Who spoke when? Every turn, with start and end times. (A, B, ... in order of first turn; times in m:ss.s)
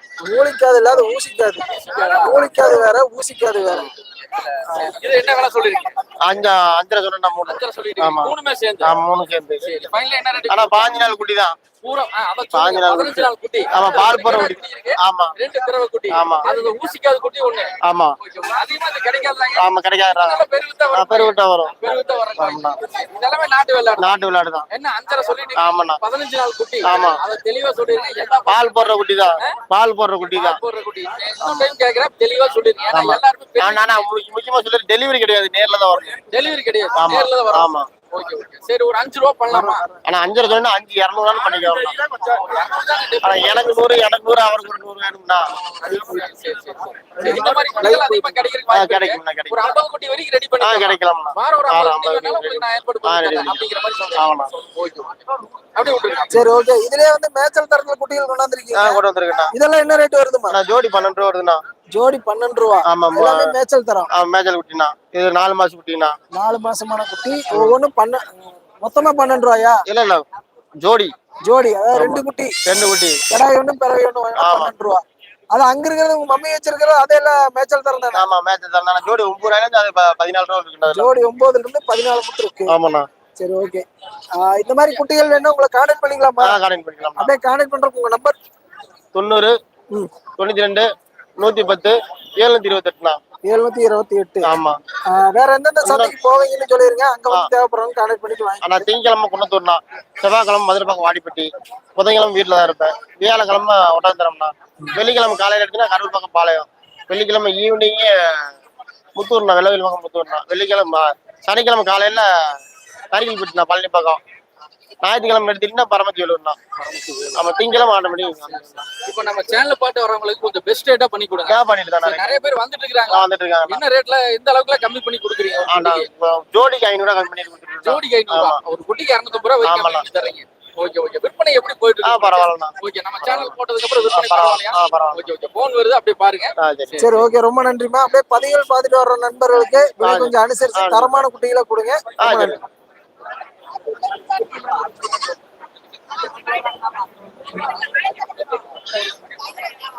0:00.2-0:03.9 A
0:01.7-0:02.6 B
0:04.0-0:06.0 B
0:04.7-0:04.9 A
0:06.2-0:09.7 C
0:07.5-0:09.0 B
0:09.6-0:11.1 B
0:10.5-0:11.6 C
0:11.8-0:19.7 B
0:12.5-0:15.3 C
0:16.1-0:16.5 C
0:17.8-0:18.2 C
0:19.6-0:21.8 C
0:20.2-0:24.1 B
0:22.4-0:22.8 C
0:24.0-0:24.7 C
0:24.7-0:29.6 B
0:25.6-0:26.0 C
0:26.8-0:27.2 C
0:28.5-0:30.6 C
0:30.3-0:34.1 B
0:31.4-0:31.7 C
0:32.9-0:36.2 C
0:36.2-0:39.8 B
0:36.9-0:37.9 C
0:39.5-0:40.0 A
0:40.0-0:42.0 C
0:42.1-0:43.9 B
0:43.2-0:45.4 C
0:45.8-0:56.6 B
0:45.9-0:46.3 A
0:47.2-0:48.4 A
0:48.7-0:49.8 C
0:50.6-0:53.6 C
0:54.2-0:54.5 C
0:56.3-0:59.0 A
0:58.7-0:59.5 C
0:59.5-1:00.6 A
1:00.5-1:01.6 C
1:01.9-1:04.1 A
1:02.8-1:03.5 C
1:04.1-1:06.2 C
1:06.3-1:09.8 A
1:09.9-1:10.2 C
1:10.8-1:11.1 C
1:11.4-1:12.6 A
1:12.0-1:13.2 C
1:13.3-1:18.2 A
1:14.4-1:14.7 C
1:18.2-1:21.1 C
1:20.9-1:22.8 A
1:22.7-1:23.1 C
1:23.4-1:23.8 A
1:24.4-1:26.6 A
1:26.4-1:27.3 C
1:27.2-1:28.4 A
1:29.1-1:29.6 C
1:30.4-1:30.9 C
1:31.4-1:33.2 C
1:33.4-1:34.5 A
1:34.4-1:34.8 C
1:35.1-1:38.9 A
1:35.8-1:36.2 C
1:38.6-1:48.5 C
1:49.2-1:52.6 C
1:53.1-1:54.2 C
1:55.0-1:56.6 C
1:56.9-1:57.3 B
1:57.3-1:58.8 C
1:58.9-2:06.1 B
2:01.5-2:02.4 C
2:03.1-2:03.8 C
2:05.7-2:08.6 C
2:07.8-2:17.2 B
2:09.6-2:10.0 C
2:12.0-2:13.5 C
2:14.1-2:15.3 C
2:16.6-2:17.1 C
2:17.0-2:22.6 A
2:20.0-2:21.1 C
2:22.2-2:22.6 C